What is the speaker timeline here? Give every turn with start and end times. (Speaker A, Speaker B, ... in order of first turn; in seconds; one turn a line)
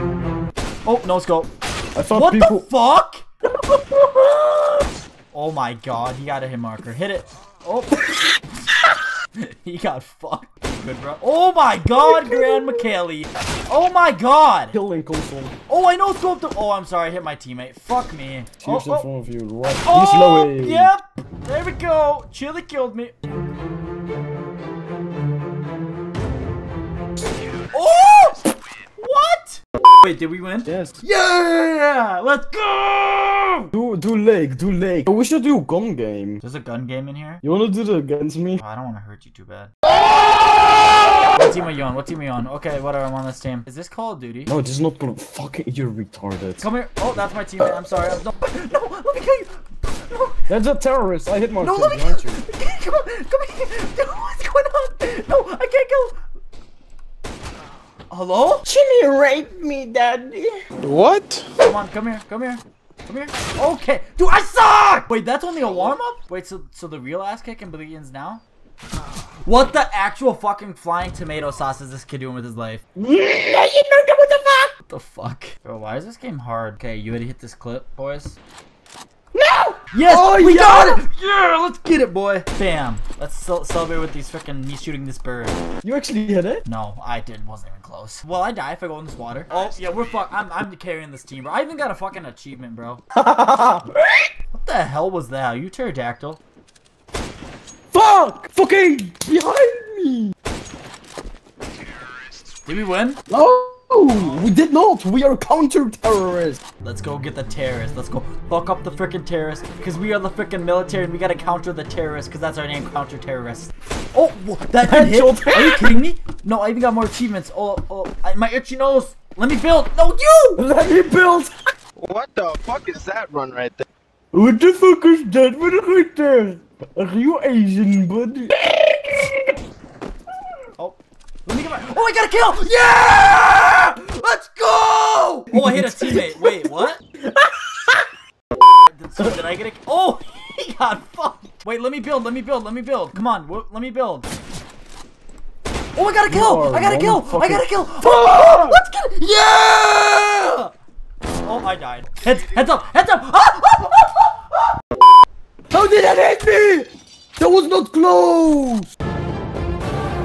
Speaker A: 0.8-1.5
Speaker B: 1.9-2.7
Speaker A: 2.1-3.2
Speaker B: 3.7-4.7
Speaker A: 5.3-8.0
Speaker A: 9.3-14.7
Speaker B: 12.0-12.8
Speaker B: 14.7-15.5
Speaker A: 15.7-19.1
Speaker B: 18.6-20.9
Speaker A: 19.8-23.1
Speaker A: 27.7-33.7
Speaker B: 30.6-31.0
Speaker B: 33.7-36.4
Speaker A: 36.4-37.4
Speaker B: 37.4-38.6
Speaker A: 38.6-39.7
Speaker A: 41.3-44.5
Speaker B: 44.5-46.6
Speaker A: 46.6-50.5
Speaker B: 50.5-52.4
Speaker A: 51.6-56.2
Speaker A: 58.1-58.6
Speaker B: 58.6-60.5
Speaker C: 60.9-61.2
Speaker A: 61.6-68.4
Speaker A: 69.4-72.8
Speaker B: 73.0-74.7
Speaker A: 74.9-78.4
Speaker B: 79.3-81.0
Speaker A: 79.9-85.6
Speaker B: 85.8-86.6
Speaker A: 86.6-93.0
Speaker B: 93.1-94.3
Speaker A: 94.5-96.4
Speaker B: 97.9-100.3
Speaker A: 102.6-103.2
Speaker B: 103.3-106.6
Speaker A: 104.2-104.4
Speaker A: 106.8-120.6
Speaker B: 114.8-115.9
Speaker B: 120.6-121.5
Speaker C: 122.0-123.8
Speaker B: 124.3-129.6
Speaker A: 130.8-137.0
Speaker B: 135.5-136.7
Speaker B: 137.2-138.1
Speaker A: 138.9-144.3
Speaker A: 145.9-150.7
Speaker B: 146.2-148.8
Speaker A: 151.4-154.7
Speaker B: 155.7-158.9